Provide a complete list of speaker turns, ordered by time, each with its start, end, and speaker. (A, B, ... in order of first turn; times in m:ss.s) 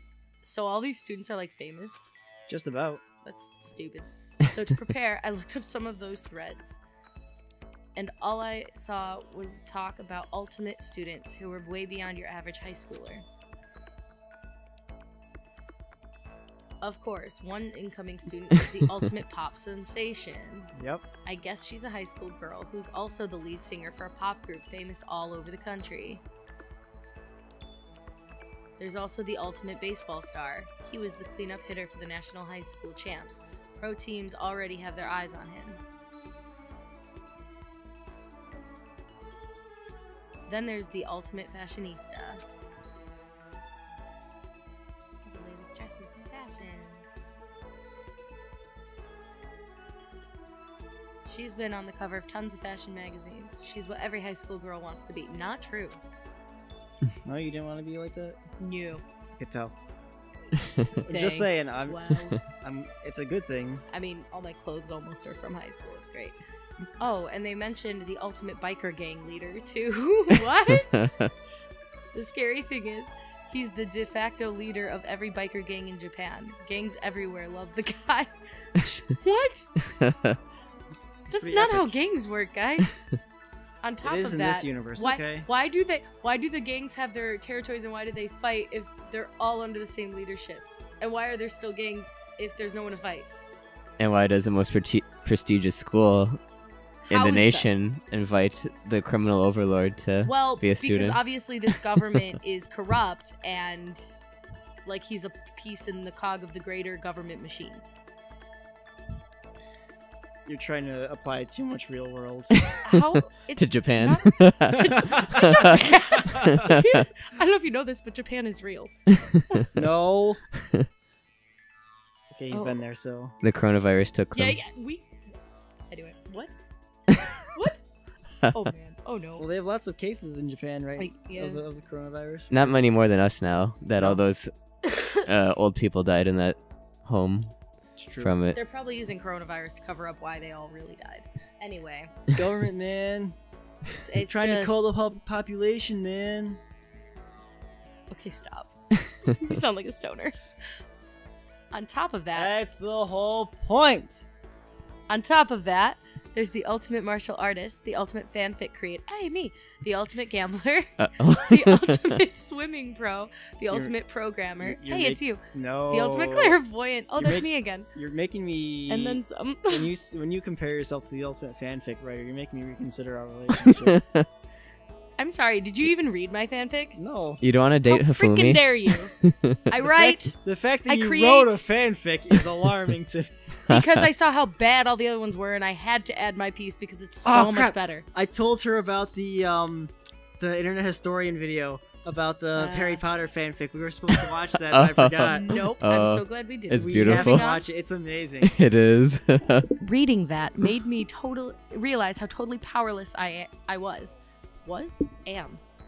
0:00.4-0:02.1 A
0:02.5-0:03.0 B
0:03.2-0:06.8 A
0:07.9-0:13.2 A
0:16.8-0:20.7 A
0:20.7-0:21.0 B
0:21.2-0:26.2 A
0:28.8-0:35.8 A
0:40.5-0:42.4 A
0:45.2-0:47.1 A
0:51.2-0:56.0 A
0:57.2-0:58.4 B
0:58.6-0:59.0 A
0:59.4-0:59.7 B
1:01.0-1:03.8 B
1:01.1-1:02.4 A
1:03.9-1:06.4 A
1:07.0-1:11.0 A
1:12.1-1:19.8 A
1:20.1-1:20.4 C
1:21.3-1:22.0 B
1:21.3-1:23.0 A
1:23.8-1:33.3 A
1:24.0-1:25.5 B
1:34.0-1:36.4 C
1:37.0-1:37.7 A
1:37.1-1:41.2 C
1:40.2-1:44.2 A
1:44.8-1:47.8 A
1:50.4-1:52.6 B
1:52.8-1:58.9 A
1:53.6-1:55.4 C
1:59.7-2:00.4 B
2:02.3-2:03.3 B
2:02.5-2:02.8 A
2:03.4-2:04.6 C
2:04.3-2:05.1 A
2:05.9-2:06.5 A
2:07.1-2:07.8 A
2:08.5-2:09.4 A
2:09.4-2:12.7 B
2:11.0-2:11.6 A
2:12.5-2:17.6 C
2:18.0-2:18.3 B
2:18.2-2:18.6 C
2:18.5-2:22.3 A
2:22.3-2:23.4 B
2:24.0-2:24.8 A
2:24.2-2:26.6 B
2:28.1-2:30.4 A
2:31.7-2:32.5 A
2:32.3-2:34.2 B
2:35.1-2:47.9 A
2:41.0-2:42.0 C
2:44.6-2:46.6 B
2:47.2-2:54.0 B
2:48.9-2:49.9 A
2:55.2-2:57.0 A
2:56.9-2:57.4 B
2:57.4-2:59.5 C
2:57.9-3:01.7 A
2:59.8-3:03.4 B
3:03.7-3:08.0 A
3:07.2-3:15.5 B
3:12.5-3:13.0 A
3:14.7-3:17.4 C
3:15.3-3:17.6 A
3:16.7-3:18.5 B
3:18.4-3:19.7 C
3:19.8-3:25.6 A